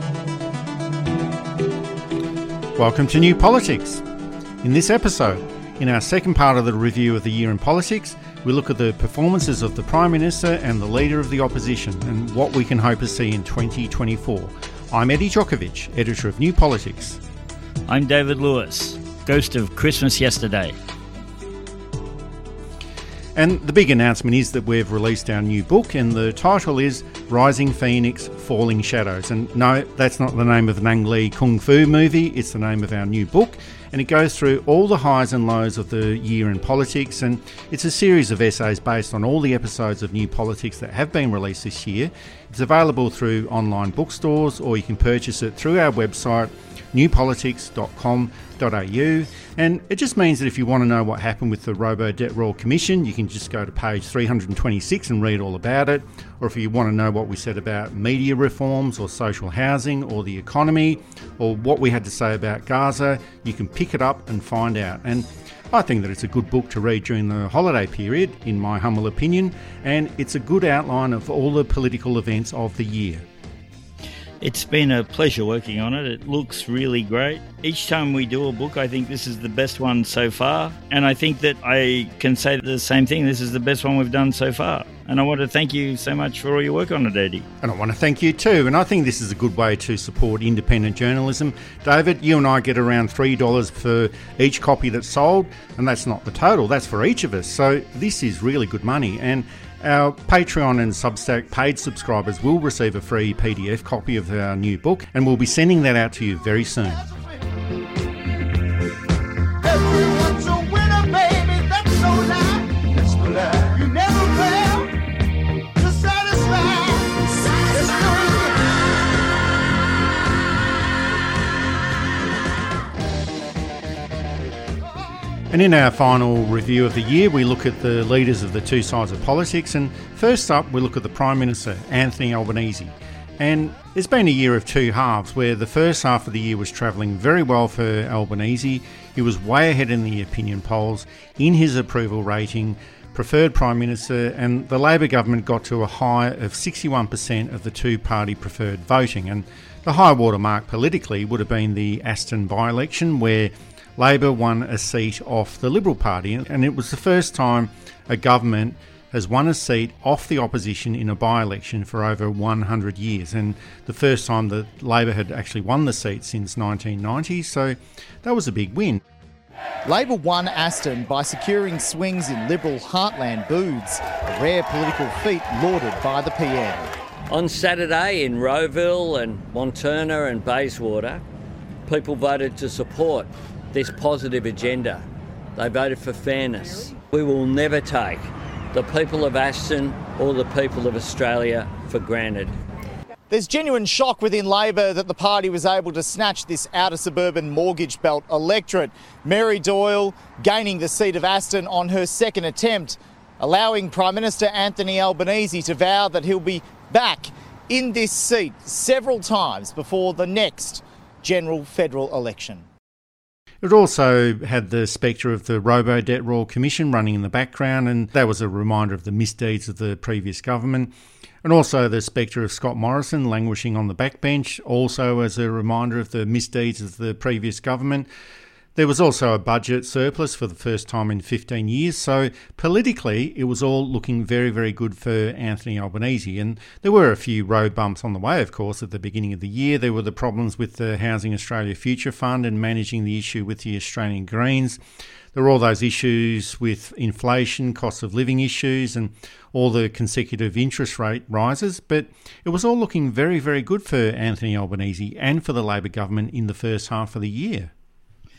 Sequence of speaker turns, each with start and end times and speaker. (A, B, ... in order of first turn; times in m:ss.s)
0:02.8-0:04.0 A
0:04.6-0:17.2 A
0:17.9-0:20.8 B
0:23.4-1:13.2 A
1:14.4-1:27.5 B
1:27.6-1:47.0 A
1:49.6-1:55.0 C
1:55.8-1:58.6 C
2:05.5-2:49.0 A
2:49.9-2:56.9 C
2:57.3-3:01.2 D
3:01.9-3:05.0 D
3:05.6-3:12.6 D
3:13.3-3:32.6 C
3:33.6-3:40.9 A
3:41.4-3:48.1 A
3:48.8-4:04.8 A
4:05.3-4:17.7 A